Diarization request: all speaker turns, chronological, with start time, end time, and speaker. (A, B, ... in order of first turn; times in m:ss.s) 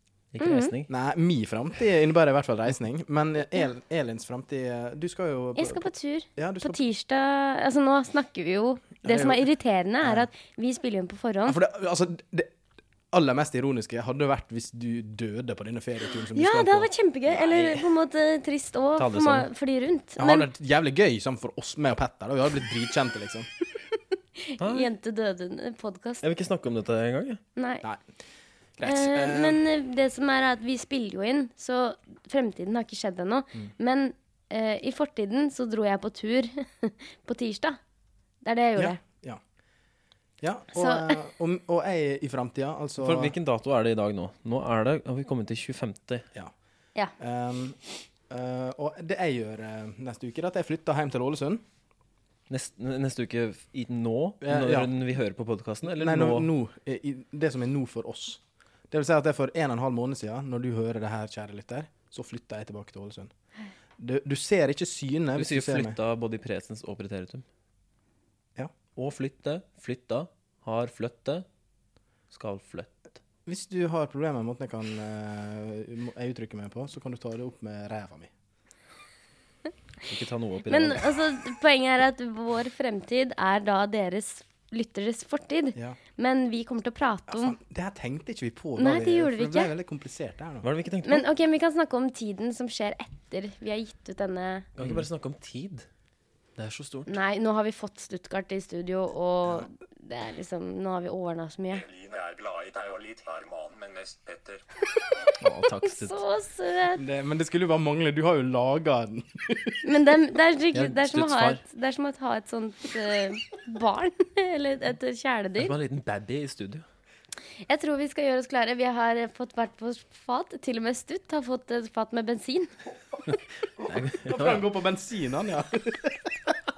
0:00.3-0:00.9 A
0:00.4-0:00.7 B
0:00.9-0:06.8 C
0:05.6-0:11.6 B
0:09.0-0:09.4 C
0:10.0-0:10.3 C
0:11.5-0:12.5 C
0:13.1-0:16.9 C
0:16.3-0:20.5 B
0:17.3-0:17.9 A
0:19.0-0:19.5 A
0:20.2-0:23.5 C
0:24.4-0:26.2 B
0:24.6-0:24.9 A
0:26.2-0:27.4 A
0:27.6-0:27.8 B
0:28.8-0:29.6 C
0:28.8-0:37.8 B
0:38.4-0:39.0 B
0:38.8-0:39.4 C
0:40.4-0:43.3 C
0:40.8-0:41.2 B
0:43.0-0:46.3 A
0:47.2-0:47.8 C
0:48.3-0:51.6 C
0:52.5-0:56.5 A
0:54.4-0:54.9 C
0:55.9-1:03.3 C
1:04.0-1:06.0 C
1:05.4-1:07.4 A
1:09.0-1:11.5 A
1:12.3-1:13.1 A
1:13.5-1:18.3 C
1:20.0-1:21.1 A
1:20.7-1:27.6 B
1:27.3-1:30.7 C
1:28.8-1:29.7 B
1:30.6-1:31.3 A
1:31.0-1:34.7 B
1:34.8-1:35.9 A
1:34.8-1:35.1 C
1:36.6-1:37.1 A
1:37.1-1:41.8 B
1:41.7-1:44.6 D
1:45.4-1:46.2 A
1:45.8-1:47.0 B
1:46.9-1:49.8 C
1:49.8-1:55.8 B
1:50.7-1:51.6 A
1:55.6-1:56.8 A
1:57.6-2:02.7 B
2:03.8-2:04.7 A
2:04.2-2:06.5 C